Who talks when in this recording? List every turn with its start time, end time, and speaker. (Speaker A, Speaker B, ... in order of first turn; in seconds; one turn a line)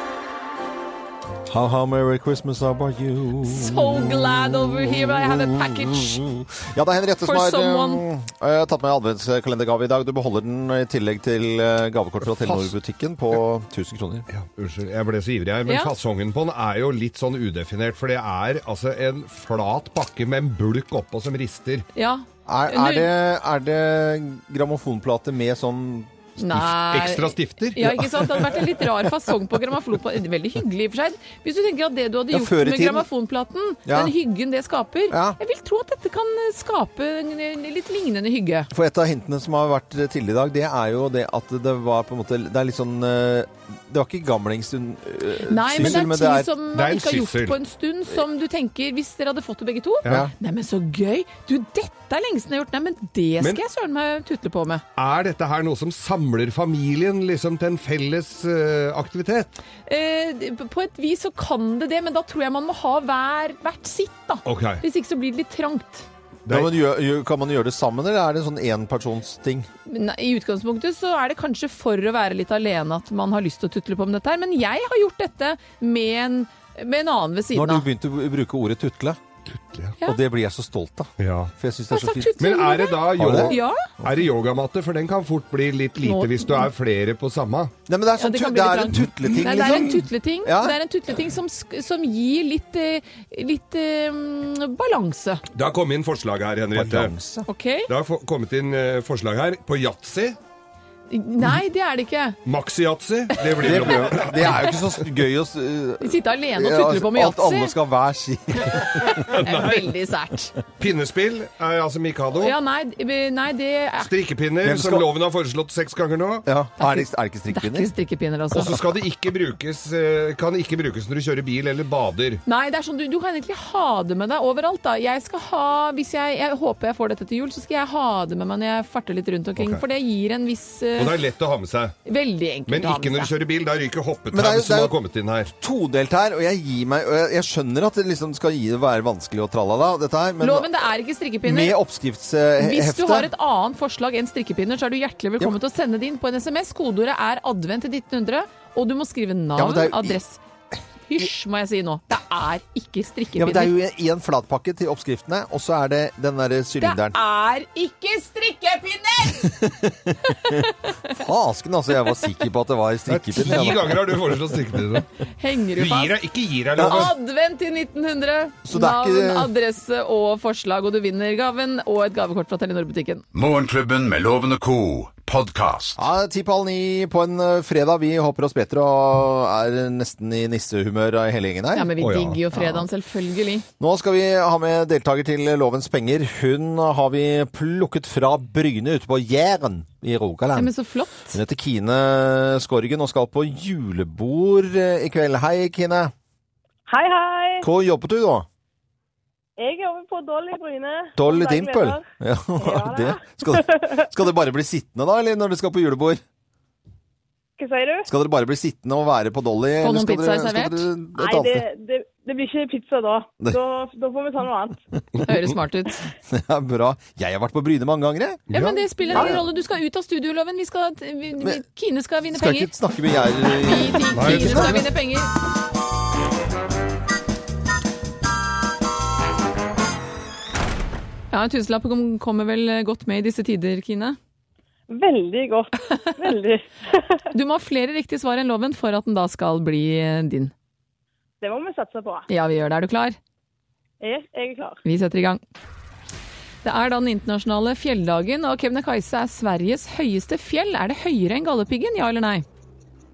Speaker A: 1.5-14.3
Speaker B: 3.4-6.2
Speaker B: 7.2-8.0
Speaker C: 14.3-21.9
Speaker B: 15.7-15.9
Speaker B: 21.9-23.1
Speaker A: 22.5-26.4
Speaker B: 26.4-38.7
Speaker C: 26.6-28.0
Speaker A: 32.3-33.1
Speaker A: 33.9-34.1
Speaker A: 35.1-35.4
Speaker A: 38.7-46.5
Speaker B: 45.5-54.8
Speaker C: 46.7-47.6
Speaker C: 50.0-50.3
Speaker A: 50.1-50.3
Speaker C: 55.0-59.5
Speaker B: 59.9-66.1
Speaker C: 64.5-64.8
Speaker A: 66.5-69.7
Speaker B: 69.9-77.9
Speaker A: 77.5-79.2
Speaker C: 79.5-80.0
Speaker A: 80.0-82.4
Speaker C: 81.2-81.5
Speaker B: 81.9-83.9
Speaker C: 82.4-87.7
Speaker A: 83.2-83.5
Speaker B: 86.0-86.7
Speaker A: 87.9-90.8
Speaker B: 88.2-95.4
Speaker C: 95.5-97.1
Speaker A: 96.7-97.5
Speaker B: 97.5-97.9
Speaker C: 97.9-100.4
Speaker B: 101.1-102.4
Speaker C: 102.5-104.8
Speaker A: 103.6-109.4
Speaker B: 106.0-107.8
Speaker C: 109.1-110.0
Speaker B: 109.4-110.5
Speaker C: 110.8-112.6
Speaker B: 112.3-114.1
Speaker C: 114.0-116.5
Speaker A: 114.6-115.1
Speaker A: 116.5-117.9
Speaker B: 116.8-118.8
Speaker C: 118.5-122.4
Speaker B: 122.5-131.2
Speaker C: 129.6-129.8
Speaker C: 131.0-131.9
Speaker B: 132.1-133.3
Speaker C: 132.7-135.5
Speaker A: 134.3-134.9
Speaker A: 135.5-140.7
Speaker B: 140.4-141.8
Speaker A: 141.4-143.3
Speaker B: 142.6-150.4
Speaker A: 149.6-150.2
Speaker B: 151.1-153.7
Speaker A: 153.4-157.2
Speaker B: 156.8-159.6
Speaker A: 159.4-164.4
Speaker B: 160.2-161.1
Speaker C: 163.1-165.1
Speaker B: 165.4-166.2
Speaker C: 165.8-167.2
Speaker A: 166.8-167.1
Speaker B: 166.8-173.2
Speaker A: 168.7-169.5
Speaker D: 173.3-176.0
Speaker A: 176.0-181.9
Speaker B: 181.7-183.7
Speaker C: 182.0-182.4
Speaker A: 182.5-182.9
Speaker A: 183.8-190.7
Speaker B: 190.6-191.4
Speaker A: 191.3-196.1
Speaker E: 196.9-197.7
Speaker A: 197.6-198.5
Speaker E: 199.6-202.1
Speaker A: 201.2-206.2
Speaker E: 202.6-204.0
Speaker E: 207.6-208.1
Speaker A: 208.1-211.7
Speaker B: 209.8-210.9
Speaker E: 211.2-214.8
Speaker B: 215.2-216.0
Speaker A: 216.3-218.4
Speaker C: 218.5-218.9
Speaker B: 218.5-222.7
Speaker A: 219.1-219.4
Speaker A: 222.3-224.8
Speaker B: 223.6-225.3
Speaker C: 224.1-224.9
Speaker B: 231.3-234.2
Speaker E: 234.9-237.2
Speaker B: 237.3-240.5
Speaker E: 241.4-242.3
Speaker B: 242.3-243.2
Speaker E: 244.0-244.8
Speaker B: 244.8-245.4
Speaker B: 246.6-252.4